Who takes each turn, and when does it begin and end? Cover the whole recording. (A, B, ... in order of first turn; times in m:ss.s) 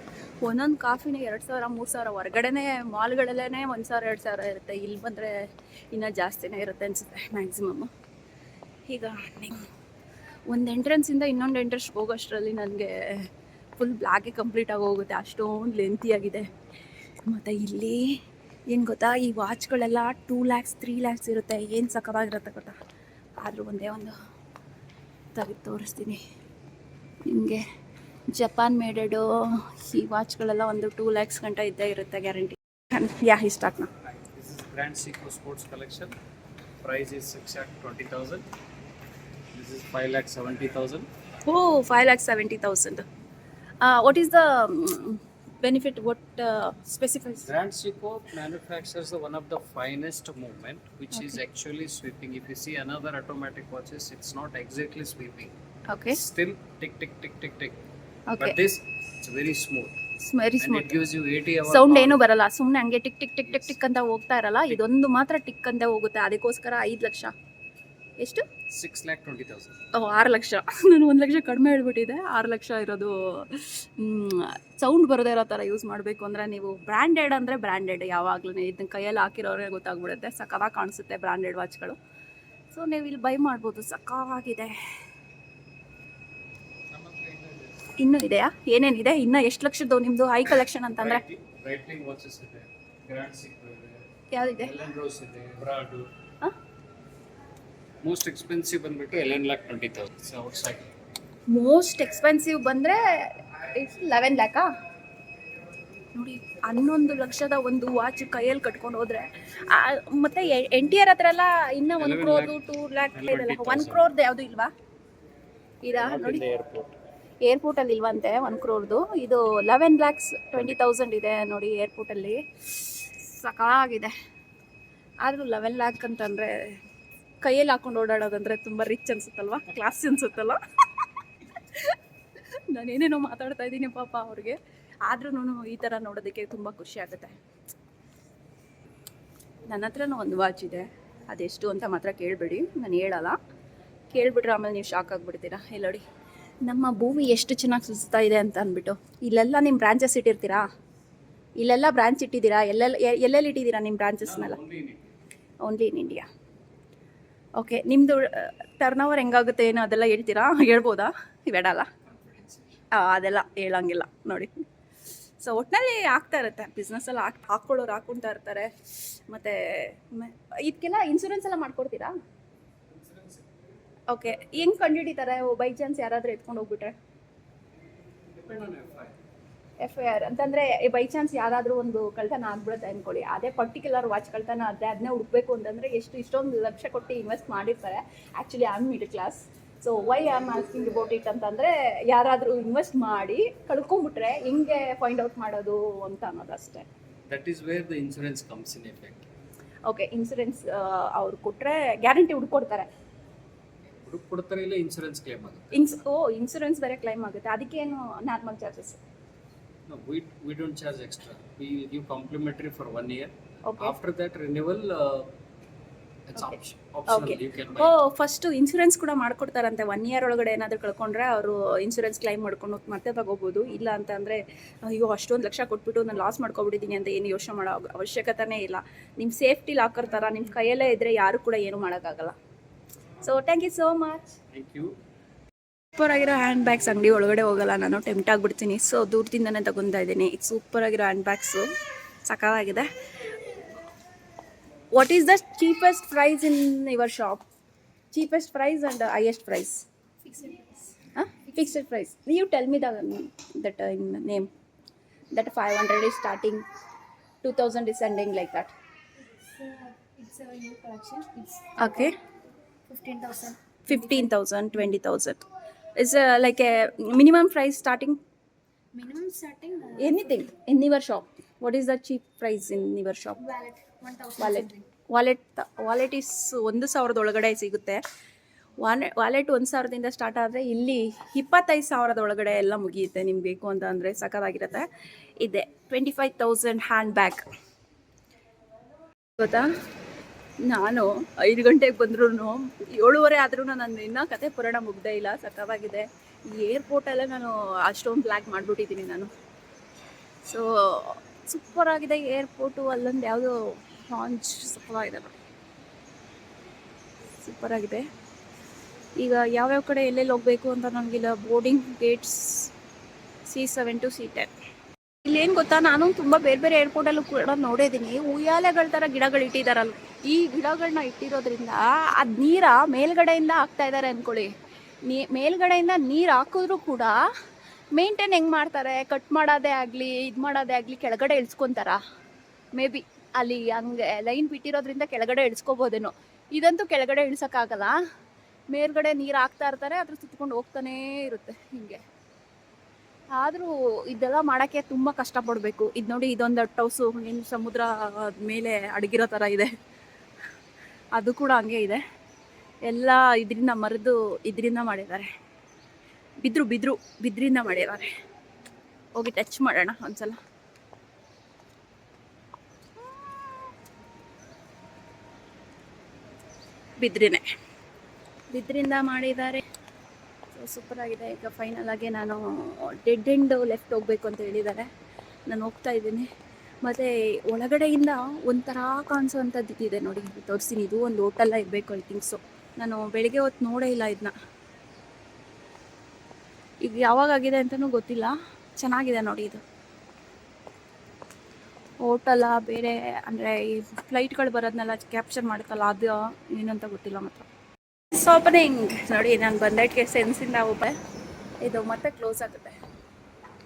0:00.4-0:05.3 A
0:05.9-0:07.9 A
0:08.9-0:09.6 A
0:10.5-0:16.5 A
0:17.2-0:18.1 A
0:18.7-0:22.7 A
0:23.4-0:24.1 A
0:25.3-0:26.2 A
0:27.2-0:27.6 A
0:28.3-0:33.9 A
0:34.3-0:36.1 B
0:36.8-0:38.4 B
0:39.5-0:41.1 B
0:41.4-0:43.0 A
0:43.8-0:47.5 A
0:47.4-0:55.5 B
0:51.1-0:51.4 A
0:55.9-0:56.2 A
0:56.1-0:57.8 B
0:58.3-0:58.6 A
0:58.4-1:00.0 B
1:00.2-1:01.0 A
1:00.6-1:02.2 B
1:01.6-1:07.3 A
1:03.5-1:03.8 B
1:08.7-1:09.8 B
1:09.9-1:22.0 A
1:22.7-1:24.7 A
1:26.9-1:27.9 B
1:28.0-1:31.2 A
1:31.0-1:34.0 B
1:34.3-1:34.8 A
1:34.6-1:36.1 B
1:38.0-1:40.9 B
1:41.5-1:44.7 A
1:46.1-1:54.7 A
1:52.0-1:52.6 B
1:53.1-1:54.0 B
1:55.8-1:56.4 A
1:56.0-1:56.9 B
1:57.4-2:04.1 A
2:05.2-2:06.6 A
2:07.4-2:12.0 A
2:12.7-2:17.4 A
2:19.7-2:23.4 A
2:24.1-2:26.0 A
2:26.6-2:30.6 A
2:31.6-2:34.6 A
2:34.2-2:35.2 B
2:35.6-2:36.3 A
2:37.6-2:41.9 A
2:42.1-2:42.7 B
2:42.9-2:44.7 A
2:45.4-2:48.7 A
2:49.3-2:52.1 A
2:52.9-2:53.4 B
2:54.1-2:56.9 A
2:58.4-2:59.2 B
2:59.8-3:16.9 A
3:17.3-3:19.3 B
3:19.8-3:22.9 A
3:24.1-3:26.0 B
3:25.7-3:29.0 A
3:29.9-3:35.3 B
3:33.7-3:34.0 A
3:36.3-3:38.0 B
3:36.4-3:52.3 A
3:53.2-3:54.3 A
3:54.5-3:54.9 B
3:55.9-4:01.7 A
4:02.2-4:02.9 A
4:04.9-4:07.4 A
4:08.1-4:09.8 A
4:10.3-4:10.9 C
4:11.1-4:14.5 A
4:15.3-4:16.6 A
4:17.4-4:18.7 A
4:19.6-4:22.1 C
4:21.8-4:22.1 A
4:22.9-4:24.0 C
4:23.9-4:25.4 A
4:26.0-4:28.2 A
4:29.0-4:30.4 C
4:30.0-4:33.5 A
4:33.6-4:34.7 C
4:34.4-4:38.0 A
4:38.8-4:44.9 A
4:45.4-4:47.4 A
4:49.4-4:49.7 A
4:50.7-4:59.3 A
5:00.4-5:05.4 A
5:07.4-5:08.0 A
5:09.2-5:12.7 A
5:13.5-5:14.5 A
5:15.2-5:24.5 A
5:25.0-5:27.2 A
5:27.9-5:32.0 A
5:32.8-5:37.9 A
5:38.7-5:42.0 A
5:43.3-5:49.7 A
5:51.2-5:52.0 A
5:52.9-5:55.3 A
5:56.4-5:58.1 A
5:59.2-6:00.4 A
6:07.0-6:07.4 A
6:08.5-6:09.6 A
6:10.5-6:14.9 A
6:15.5-6:16.2 A
6:16.8-6:24.3 A
6:26.8-6:29.6 A
6:32.0-6:37.4 A
6:38.1-6:40.9 A
6:41.6-6:42.8 A